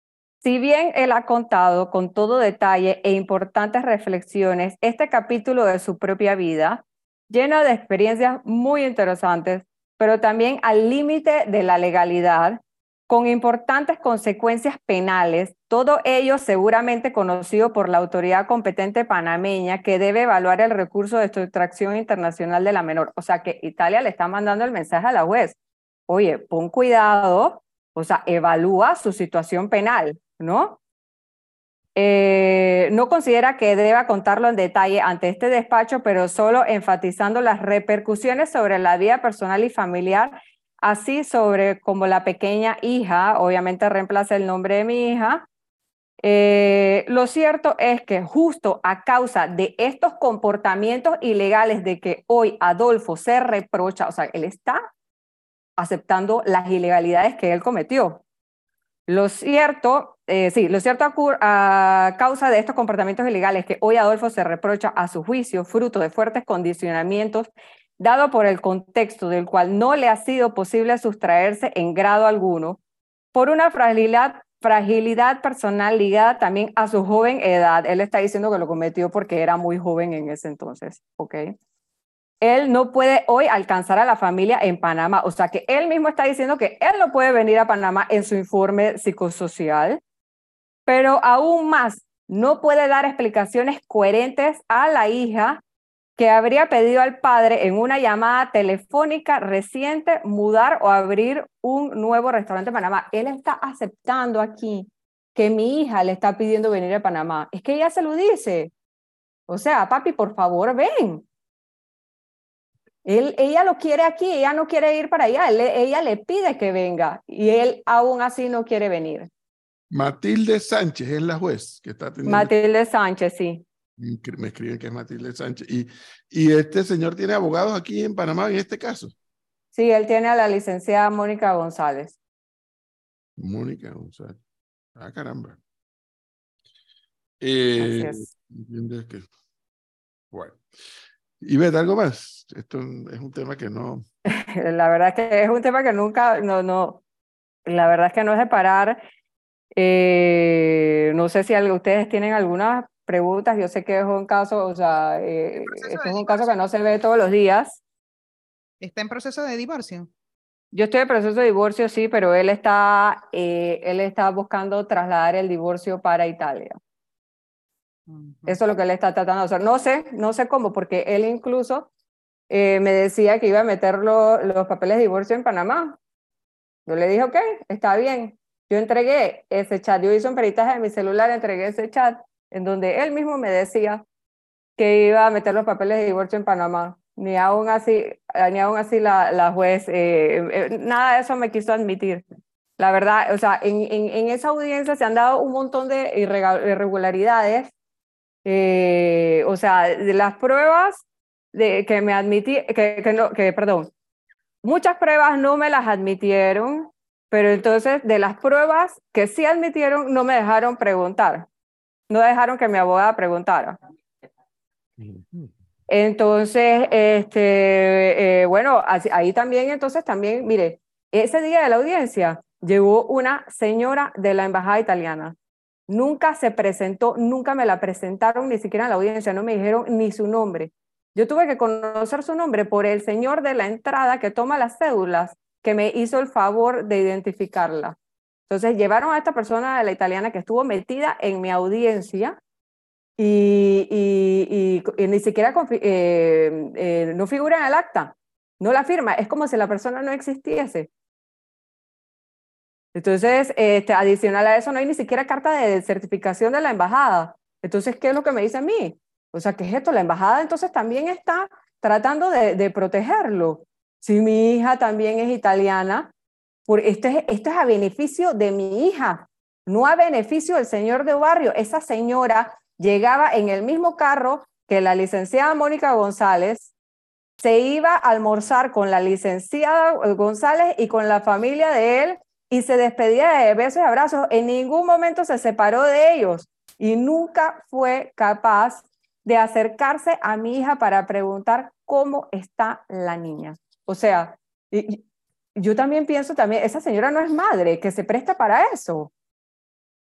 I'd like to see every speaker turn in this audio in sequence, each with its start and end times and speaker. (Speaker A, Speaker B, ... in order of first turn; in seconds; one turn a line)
Speaker A: 0.4-25.6
Speaker A: 26.1-30.8
Speaker A: 31.9-45.4
Speaker A: 46.2-54.8
Speaker A: 55.8-58.2
Speaker A: 59.1-72.8
Speaker A: 73.3-81.5
Speaker A: 82.4-90.0
Speaker A: 90.9-95.6
Speaker A: 96.2-108.7
Speaker A: 109.5-111.2
Speaker A: 113.0-119.3
Speaker B: 119.9-122.5
Speaker A: 122.2-123.6
Speaker B: 124.0-129.1
Speaker A: 129.7-132.1
Speaker B: 133.4-134.4
Speaker B: 134.9-135.6
Speaker B: 137.4-139.3
Speaker A: 137.8-138.3
Speaker B: 140.3-140.6
Speaker B: 141.4-144.0
Speaker A: 144.2-147.0
Speaker A: 147.7-149.0
Speaker A: 149.7-157.8
Speaker C: 155.6-156.6
Speaker C: 158.8-160.1
Speaker A: 160.7-166.8
Speaker C: 168.1-168.6
Speaker A: 168.5-171.9
Speaker A: 172.5-176.0
Speaker A: 176.8-184.0
Speaker A: 184.8-192.2
Speaker A: 192.8-197.7
Speaker A: 198.4-203.9
Speaker A: 204.6-211.4
Speaker A: 212.1-213.8
Speaker B: 215.0-215.4
Speaker A: 215.9-225.3
Speaker A: 225.9-237.9
Speaker A: 238.5-242.4
Speaker A: 243.2-250.9
Speaker A: 252.9-266.1
Speaker A: 266.7-276.7
Speaker A: 277.4-295.0
Speaker A: 295.6-299.1